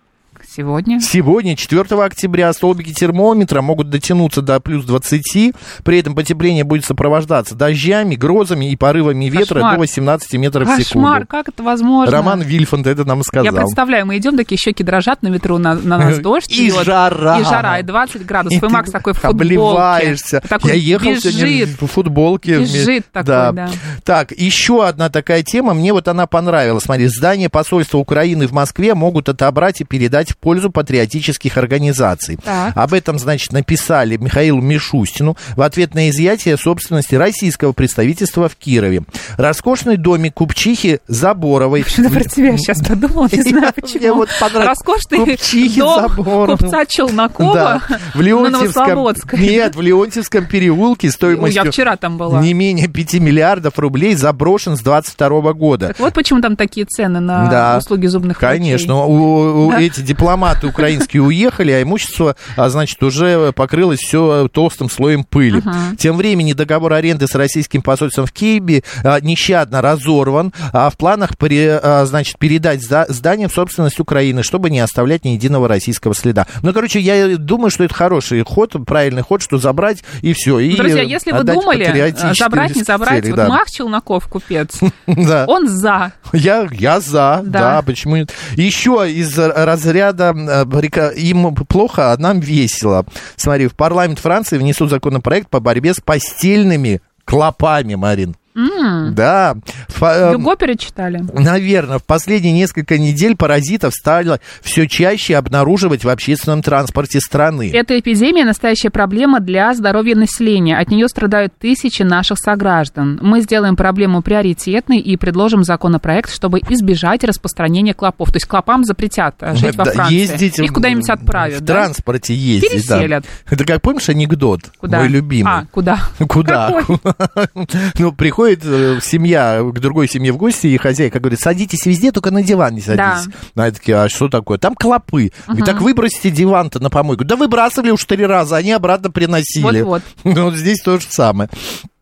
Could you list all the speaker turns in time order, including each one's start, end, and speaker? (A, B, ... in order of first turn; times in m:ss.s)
0:00.4-0:01.1 A
0:01.0-0:11.3 B
0:09.3-0:09.8 A
0:10.6-0:12.4 A
0:12.0-0:13.8 B
0:13.4-0:21.8 A
0:16.0-0:17.9 B
0:18.5-0:46.8 B
0:22.5-0:23.8 A
0:32.4-0:32.8 A
0:41.8-0:49.7 A
0:47.4-0:51.8 B
0:51.2-0:52.5 A
0:52.3-0:56.0 B
0:55.9-0:58.9 A
0:57.4-0:57.9 B
0:58.4-1:23.6 B
1:05.5-1:06.0 A
1:20.7-1:24.9 A
1:25.0-1:25.5 B
1:25.4-1:26.2 A
1:26.3-1:38.4 B
1:27.4-1:27.8 A
1:38.6-1:39.2 A
1:39.0-1:40.5 B
1:40.2-1:41.3 A
1:41.3-1:47.8 B
1:47.7-2:01.9 A
1:59.5-2:05.6 B
2:02.6-2:03.3 A
2:04.8-2:06.9 A
2:06.2-2:21.8 B
2:12.9-2:13.3 A
2:15.5-2:15.9 A
2:19.6-2:20.1 A